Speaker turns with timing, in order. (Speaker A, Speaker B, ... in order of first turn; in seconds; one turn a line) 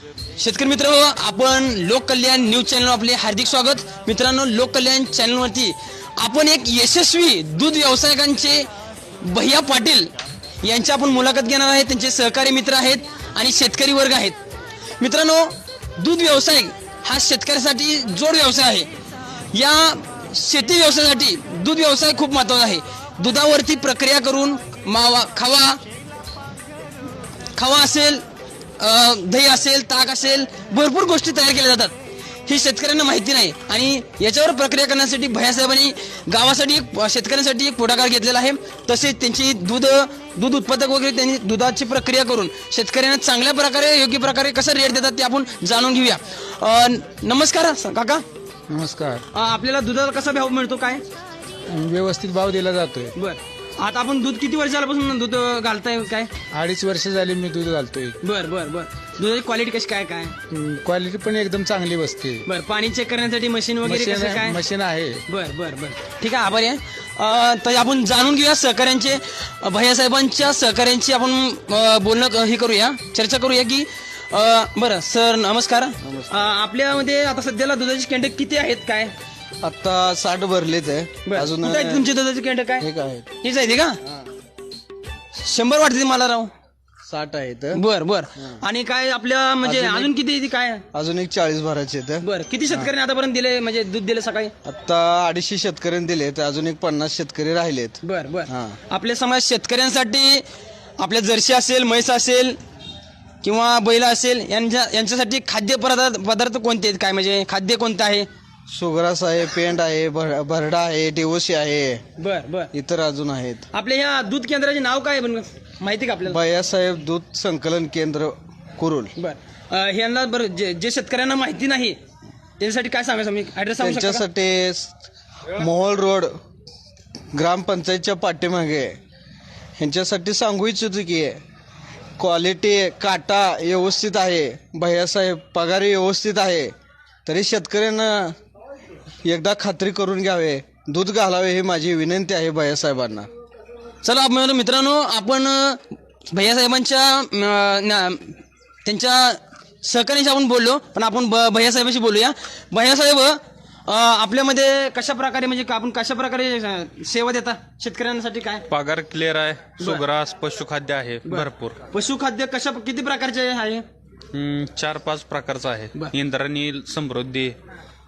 Speaker A: 0.4-8.7
Speaker A: 9.2-14.4
Speaker A: 15.0-18.9
Speaker A: 19.5-25.8
Speaker A: 27.5-28.2
Speaker A: 28.8-31.9
Speaker A: 32.5-48.2
Speaker B: 48.7-49.2
Speaker A: 49.3-51.0
Speaker B: 51.7-53.1
Speaker A: 53.1-56.3
Speaker B: 56.5-58.2
Speaker A: 58.2-60.4
Speaker B: 60.5-62.4
Speaker A: 62.4-64.6
Speaker B: 63.8-65.2
Speaker A: 65.3-79.1
Speaker C: 76.0-76.5
Speaker C: 79.6-82.1
Speaker A: 81.2-82.8
Speaker C: 82.8-83.3
Speaker A: 83.4-84.0
Speaker A: 85.3-86.5
Speaker C: 87.1-87.8
Speaker A: 87.7-90.8
Speaker C: 89.6-90.1
Speaker C: 90.9-92.9
Speaker A: 92.2-94.5
Speaker C: 94.6-98.8
Speaker A: 98.0-100.5
Speaker A: 101.0-102.6
Speaker A: 103.4-108.3
Speaker C: 108.7-112.0
Speaker A: 112.2-112.7
Speaker C: 112.7-113.7
Speaker A: 113.7-116.4
Speaker C: 116.2-119.1
Speaker A: 119.1-122.0
Speaker A: 122.6-124.2
Speaker C: 123.8-125.0
Speaker C: 125.5-126.3
Speaker C: 127.3-129.0
Speaker C: 129.8-131.4
Speaker C: 132.2-136.7
Speaker C: 137.2-138.3
Speaker C: 139.2-143.3
Speaker A: 144.0-158.7
Speaker D: 158.7-161.8
Speaker A: 159.8-160.1
Speaker A: 161.2-163.8
Speaker D: 164.3-167.6